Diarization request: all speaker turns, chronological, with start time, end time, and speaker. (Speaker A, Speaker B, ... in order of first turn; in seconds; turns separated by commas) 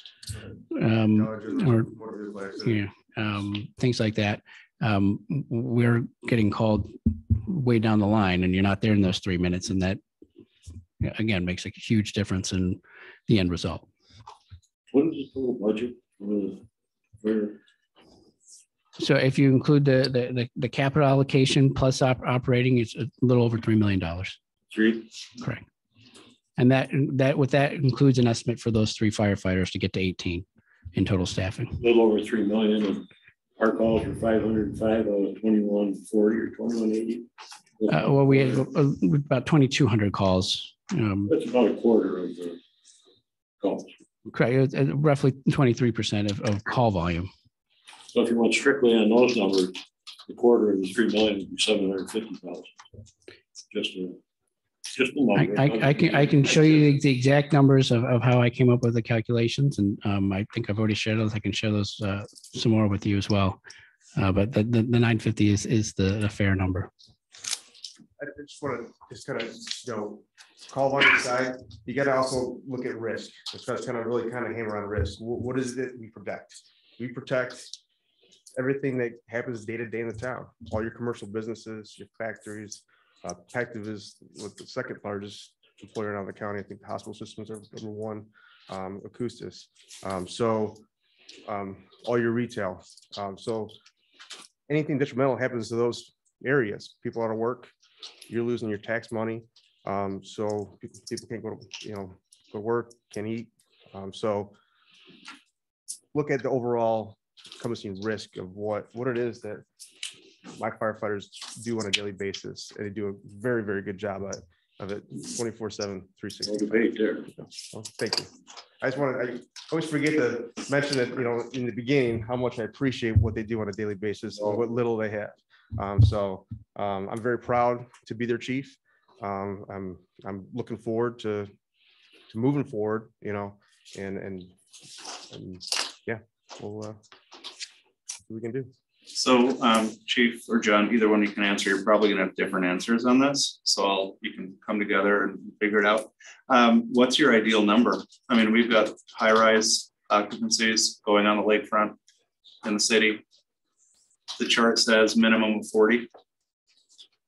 Speaker A: 0.7-1.9, Speaker B: 1.1-2.9, Speaker A: 2.6-10.0, Speaker A: 11.0-13.9, Speaker C: 14.9-16.6, Speaker C: 17.2-17.6, Speaker A: 19.0-24.4, Speaker C: 24.7-25.1, Speaker A: 26.6-31.8, Speaker C: 31.8-33.1, Speaker C: 33.6-37.3, Speaker C: 37.8-38.7, Speaker A: 37.9-41.3, Speaker C: 41.3-42.6, Speaker C: 43.6-43.9, Speaker A: 44.3-47.3, Speaker C: 48.1-53.0, Speaker C: 53.7-54.2, Speaker C: 54.9-57.0, Speaker A: 55.4-63.6, Speaker A: 64.2-66.9, Speaker B: 68.2-77.7, Speaker B: 78.6-90.8, Speaker B: 91.4-93.8, Speaker B: 94.7-97.7, Speaker B: 98.3-104.5, Speaker B: 106.1-109.6, Speaker B: 110.5-131.5, Speaker C: 116.4-117.3, Speaker C: 124.3-124.7, Speaker B: 132.3-134.6, Speaker B: 135.3-137.0, Speaker B: 138.3-138.7, Speaker D: 139.1-152.0, Speaker D: 152.6-153.2, Speaker D: 154.4-156.1